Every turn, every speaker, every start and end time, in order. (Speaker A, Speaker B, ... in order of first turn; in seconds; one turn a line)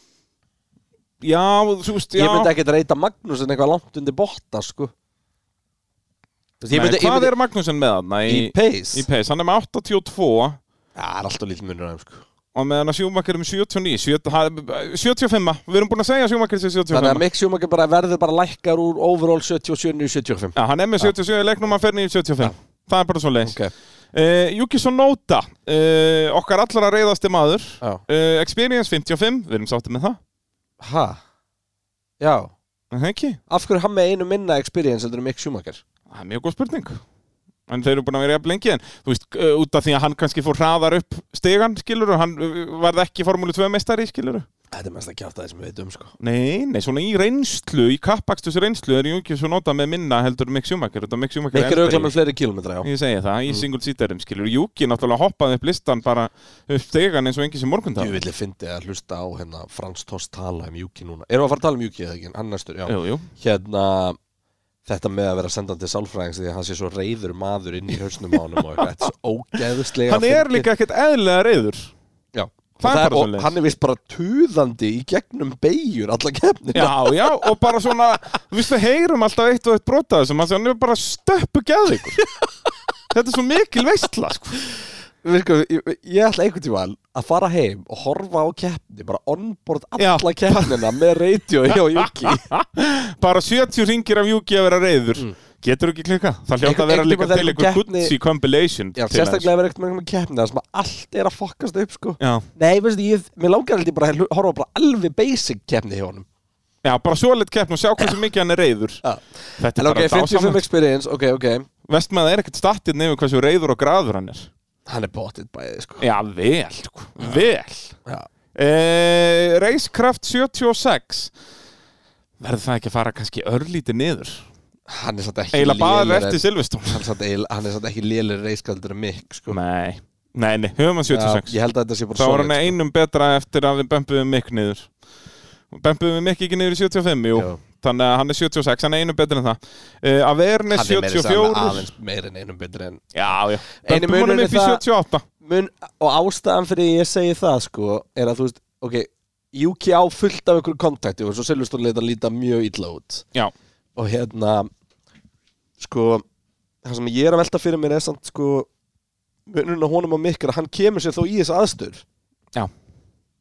Speaker A: 1.2-2.5
Speaker B: 2.1-4.9
Speaker B: 6.6-7.3
Speaker A: 6.7-10.6
Speaker B: 8.3-9.1
Speaker B: 10.9-12.2
Speaker A: 12.5-17.2
Speaker B: 16.9-21.1
Speaker A: 20.5-23.6
Speaker B: 23.4-23.7
Speaker A: 24.1-30.2
Speaker B: 30.8-31.2
Speaker B: 32.2-32.5
Speaker A: 32.9-33.4
Speaker B: 33.5-35.8
Speaker A: 36.1-37.0
Speaker A: 37.7-44.5
Speaker B: 44.7-46.1
Speaker A: 46.2-52.1
Speaker B: 51.5-52.9
Speaker A: 52.8-58.2
Speaker B: 58.0-64.2
Speaker A: 62.9-63.3
Speaker B: 64.8-70.7
Speaker A: 68.5-68.8
Speaker A: 70.0-71.9
Speaker B: 72.3-77.5
Speaker A: 72.8-73.5
Speaker A: 76.7-82.2
Speaker A: 83.1-84.6
Speaker B: 85.2-92.4
Speaker A: 90.0-91.0
Speaker A: 91.7-99.5
Speaker B: 96.6-98.1
Speaker B: 99.0-106.2
Speaker A: 102.2-102.5
Speaker A: 106.8-109.0
Speaker B: 109.0-111.7
Speaker A: 109.6-110.6
Speaker A: 111.9-114.5
Speaker B: 114.9-116.0
Speaker A: 116.0-117.9
Speaker A: 118.5-121.3
Speaker A: 122.4-124.5
Speaker B: 124.9-129.6
Speaker A: 125.5-127.0
Speaker A: 129.5-131.5
Speaker B: 131.1-132.8
Speaker A: 132.2-134.9
Speaker A: 135.7-141.9
Speaker B: 137.3-137.6
Speaker B: 140.7-143.1
Speaker A: 143.1-145.2
Speaker B: 143.7-144.8
Speaker B: 145.4-153.2
Speaker B: 153.9-154.7
Speaker B: 155.8-156.2
Speaker B: 156.8-158.7
Speaker B: 159.5-162.0